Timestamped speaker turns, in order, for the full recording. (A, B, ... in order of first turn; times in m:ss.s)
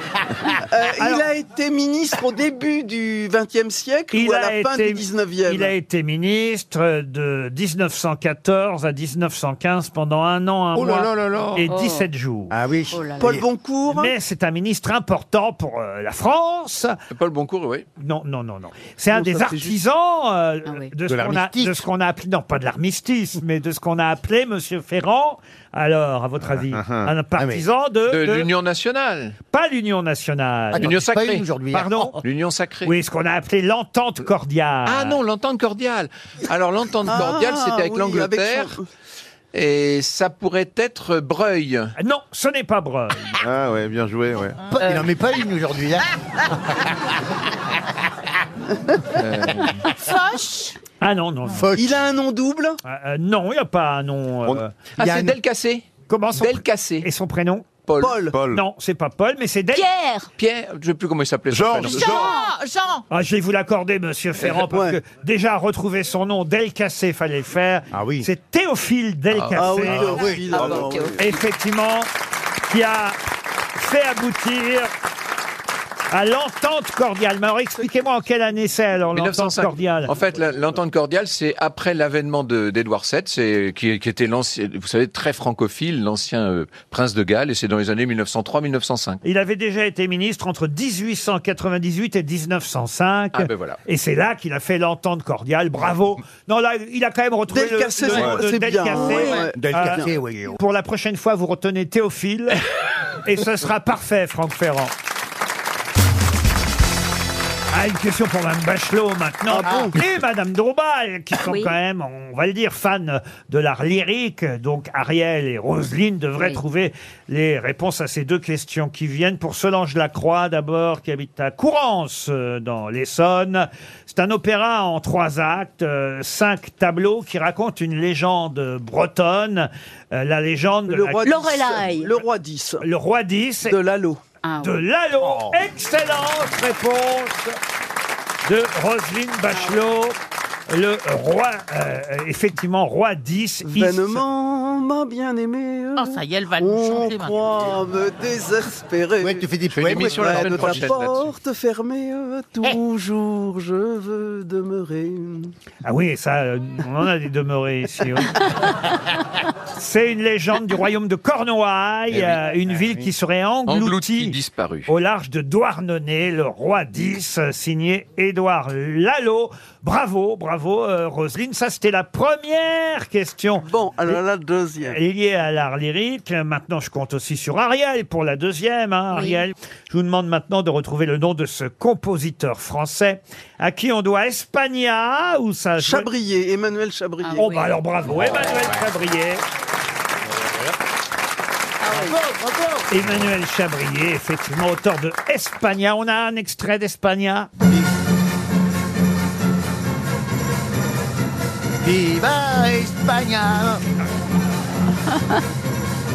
0:00.7-0:05.7 A
0:01.0-0:01.3 B
0:04.1-0:12.5 B
0:10.7-0:11.7 C
0:11.6-0:12.1 D
0:12.5-0:13.4 C
0:12.9-0:13.4 D
0:13.2-0:14.1 A
0:13.9-0:17.0 B
0:17.1-0:17.9 E
0:18.0-0:28.5 B
0:19.1-0:19.8 A
0:20.6-0:20.9 D
0:21.0-0:21.8 C
0:26.7-0:27.1 F
0:27.4-0:27.6 C
0:28.1-0:29.4 E
0:29.5-0:31.0 B
0:30.7-0:32.2 C
0:30.8-0:31.5 E
0:31.7-0:32.2 B
0:32.2-0:32.9 E
0:32.8-0:35.2 B
0:34.8-0:38.7 E
0:37.0-0:38.8 A
0:39.5-0:41.9 E
0:42.0-0:43.4 B
0:43.4-0:44.6 F
0:44.7-0:47.1 C
0:49.2-0:49.7 E
0:50.0-0:50.8 G
0:51.0-0:51.7 B
0:51.5-0:52.0 C
0:51.7-0:52.8 A
0:52.8-0:54.7 B
0:55.0-0:57.1 E
0:55.0-0:55.4 C
0:56.1-0:57.8 B
0:57.8-0:58.2 E
0:58.0-0:58.4 A
0:58.3-0:58.6 F
0:58.5-0:59.8 B
0:59.7-1:00.3 D
1:00.4-1:02.2 E
1:01.5-1:02.3 F
1:01.8-1:03.0 G
1:02.0-1:02.5 D
1:03.1-1:10.2 B
1:04.5-1:05.0 A
1:07.9-1:08.3 C
1:09.3-1:09.8 E
1:09.5-1:11.2 A
1:09.9-1:10.9 C
1:10.5-1:10.9 F
1:10.8-1:11.0 D
1:11.2-1:12.1 B
1:12.7-1:13.2 B
1:13.8-1:14.9 B
1:16.1-1:20.2 B
1:19.1-1:29.2 E
1:29.2-1:42.6 B
1:33.3-1:33.8 E
1:37.5-1:40.1 A
1:38.1-1:38.4 F
1:39.0-1:39.5 D
1:39.5-1:40.6 C
1:43.2-1:44.9 B
1:47.7-2:11.3 B
1:49.5-1:50.0 A
1:49.6-1:49.9 C
1:51.4-1:51.7 D
2:10.9-2:12.8 A
2:11.2-2:12.2 D
2:12.8-2:13.8 B
2:13.6-2:14.2 A
2:14.4-2:14.8 D
2:14.6-2:17.6 B
2:15.2-2:15.5 C
2:18.4-2:20.2 B
2:19.5-2:19.8 D
2:20.7-2:24.2 B
2:23.6-2:35.5 A
2:26.0-2:27.4 G
2:29.2-2:30.9 C
2:29.7-2:31.3 E
2:35.8-2:38.5 B
2:39.7-2:54.2 B
2:42.3-2:43.1 C
2:43.7-2:44.9 E
2:53.6-2:55.0 A
2:54.8-3:06.1 B
2:59.1-2:59.4 D
3:05.8-3:07.5 A
3:07.2-3:07.8 D
3:07.3-3:09.4 B
3:08.3-3:08.8 C
3:11.8-3:12.2 D
3:11.9-3:12.9 C
3:12.9-3:17.5 B
3:21.8-3:23.8 C